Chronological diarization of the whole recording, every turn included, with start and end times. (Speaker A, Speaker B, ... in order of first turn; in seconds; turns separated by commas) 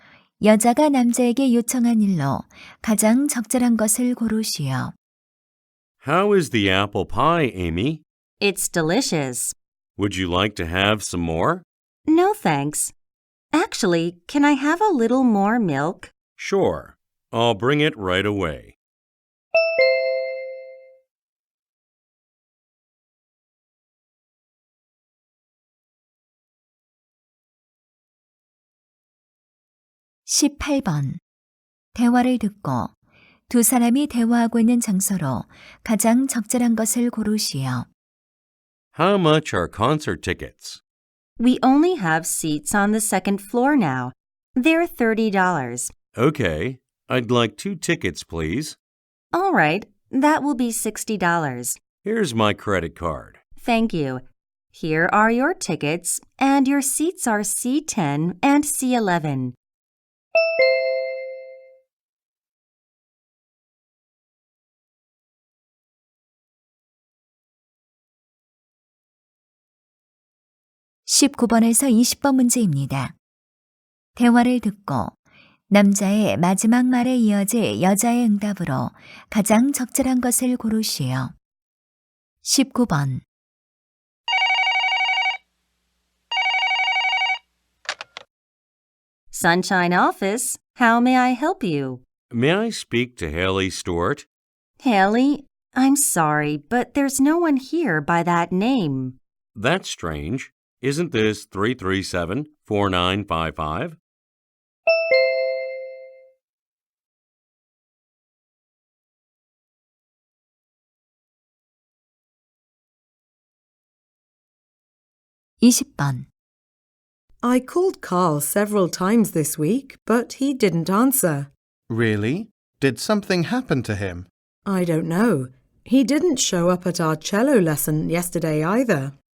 Speaker A: 0.4-4.9, Speaker B: 6.0-8.0, Speaker C: 8.4-9.5, Speaker B: 10.0-11.6, Speaker C: 12.1-12.9, Speaker C: 13.5-16.1, Speaker B: 16.4-18.8, Speaker A: 30.3-31.2, Speaker A: 31.9-32.9, Speaker A: 33.5-37.9, Speaker B: 38.9-40.8, Speaker C: 41.4-45.9, Speaker B: 46.1-48.8, Speaker C: 49.3-51.8, Speaker B: 52.0-53.4, Speaker C: 53.6-59.5, Speaker A: 71.0-73.1, Speaker A: 74.2-75.1, Speaker A: 75.7-81.3, Speaker A: 82.4-83.2, Speaker C: 89.3-92.0, Speaker B: 92.3-94.2, Speaker C: 94.8-99.2, Speaker B: 99.5-104.0, Speaker A: 115.6-116.3, Speaker D: 117.4-121.5, Speaker E: 121.9-124.3, Speaker D: 124.7-129.1